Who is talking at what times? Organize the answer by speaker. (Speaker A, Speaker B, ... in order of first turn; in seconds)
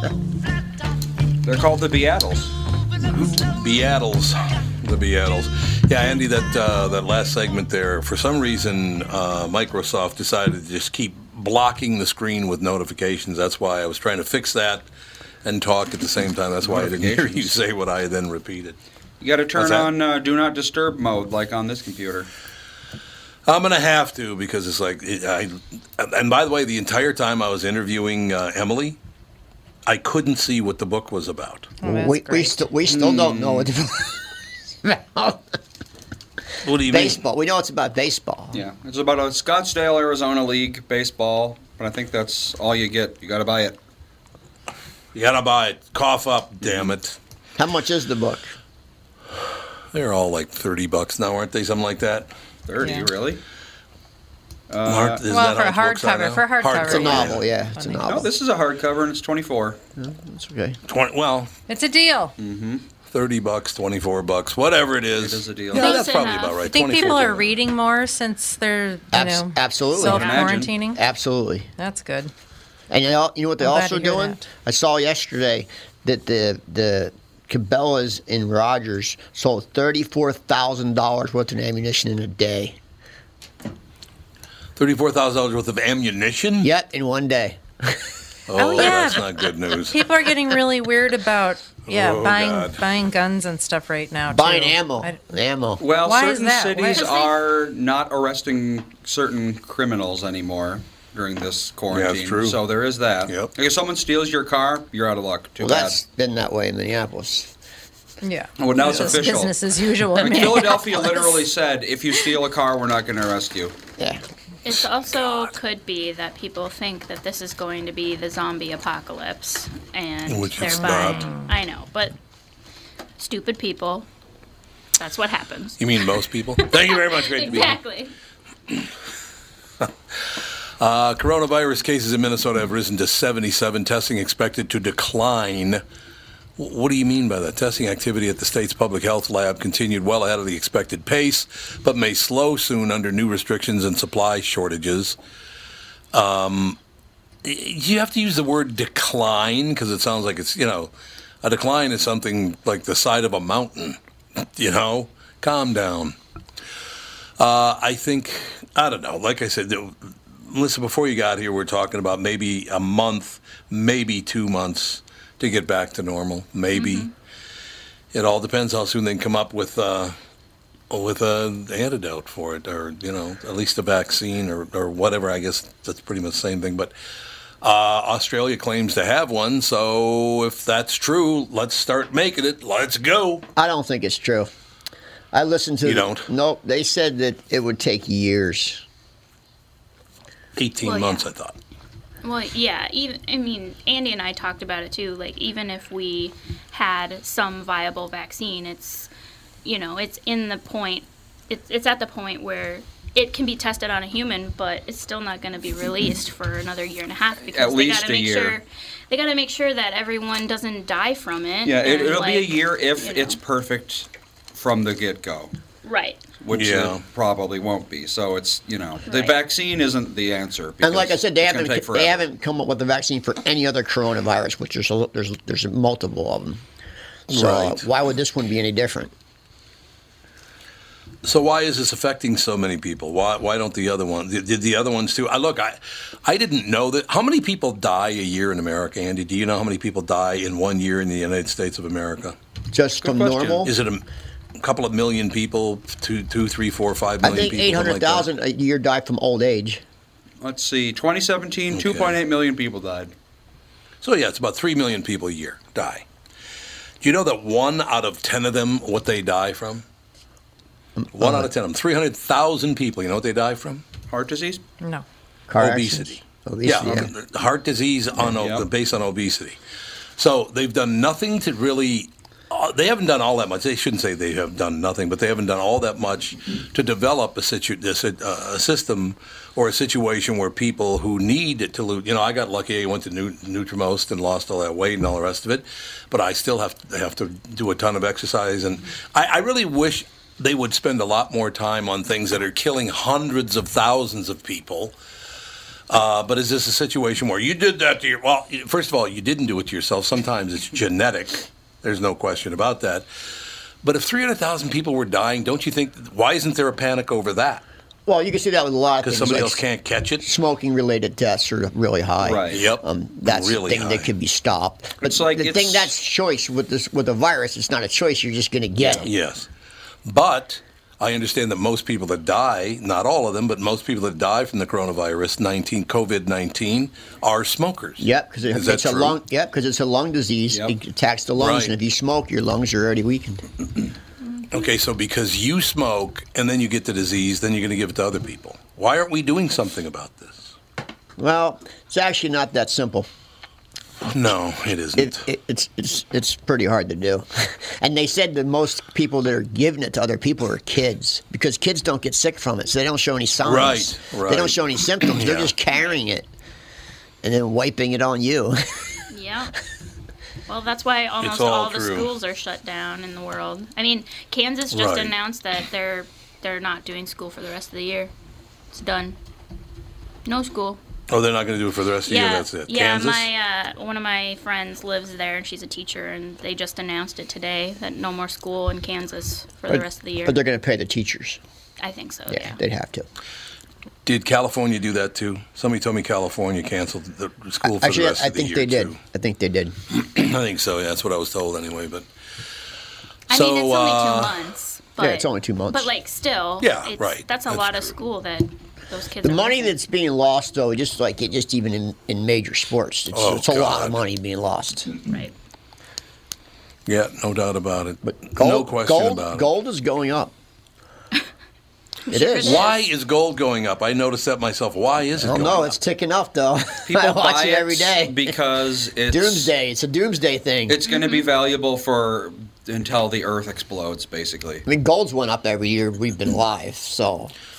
Speaker A: 1.4-2.5, 16.6-17.6, 19.2-22.3, 32.9-33.7, 38.5-43.8, 52.7-53.4, 54.7-55.2, 58.1-59.8, 62.4-62.9, 65.1-66.0, 70.0-70.8, 95.8-106.0, 108.6-113.8, 207.5-208.6, 211.7-215.5, 216.4-222.3, 243.0-243.7, 250.4-253.1, 264.1-264.6, 266.8-267.1, 268.2-268.7, 312.2-312.6, 315.0-315.9, 318.8-319.1, 416.9-419.5, 420.7-424.6
Speaker B: 3.1-14.9, 15.4-18.8, 19.6-19.9, 23.5-29.0, 29.9-31.7, 36.6-37.2, 45.1-47.2, 49.9-52.3, 54.9-57.4, 60.9-61.5, 63.1-67.6, 84.8-86.7, 88.5-90.0, 91.8-92.8, 101.9-102.6, 103.3-103.5, 120.3-121.3, 125.8-127.8, 129.8-135.8, 136.6-145.2, 146.1-146.8, 147.4-156.2, 157.4-167.1, 168.1-170.2, 170.9-176.9, 177.6-183.5, 185.8-186.3, 190.6-191.6, 216.5-217.0, 227.3-227.9, 231.2-242.4, 243.7-244.0, 244.6-248.3, 251.7-252.2, 254.0-256.1, 257.0-259.9, 261.1-263.8, 265.6-269.6, 270.2-295.0, 295.9-303.1, 303.8-307.6, 309.0-310.2, 312.5-314.1, 319.0-319.5, 320.1-329.2, 331.4-331.7, 334.5-340.6, 344.0-345.2, 353.4-355.5, 361.2-362.1, 364.7-365.1, 371.1-373.3, 384.1-389.0, 389.9-392.1, 393.3-394.4, 396.6-397.9, 403.1-404.0, 406.9-409.5, 412.4-415.8
Speaker C: 31.8-32.6, 52.8-53.1, 55.3-58.0, 61.7-62.4, 66.6-71.0, 71.8-72.3, 73.6-74.4, 88.6-95.2, 95.9-97.1, 108.2-111.4, 120.8-121.5
Speaker D: 31.8-35.4, 36.9-38.6, 47.6-48.5, 56.8-58.3, 60.0-60.8, 69.1-71.7, 72.9-82.8, 86.6-88.0, 94.3-95.8, 105.6-107.5, 183.6-184.5, 185.3-188.8, 220.8-226.6, 227.3-229.1, 242.7-243.7, 247.2-249.8, 261.0-261.5, 265.5-267.1, 308.1-309.6, 310.2-319.1, 328.0-333.5, 341.2-343.1, 345.0-356.3, 357.2-358.6, 379.7-381.4, 382.3-383.1, 387.6-389.8, 395.0-395.9, 399.2-404.9, 408.0-410.3, 412.1-412.7, 415.2-418.4, 419.1-420.8, 424.7-427.3
Speaker E: 65.7-66.6, 96.9-97.4, 114.6-122.2, 123.2-124.1, 125.0-128.1, 166.7-167.1, 190.8-191.3, 192.2-199.1, 199.7-213.4, 215.8-216.2, 219.1-219.4, 359.1-359.5, 360.5-368.1, 368.7-369.2, 370.2-370.8, 372.1-380.4, 381.8-382.6, 393.3-399.7, 405.0-405.3, 412.1-412.8, 420.9-421.3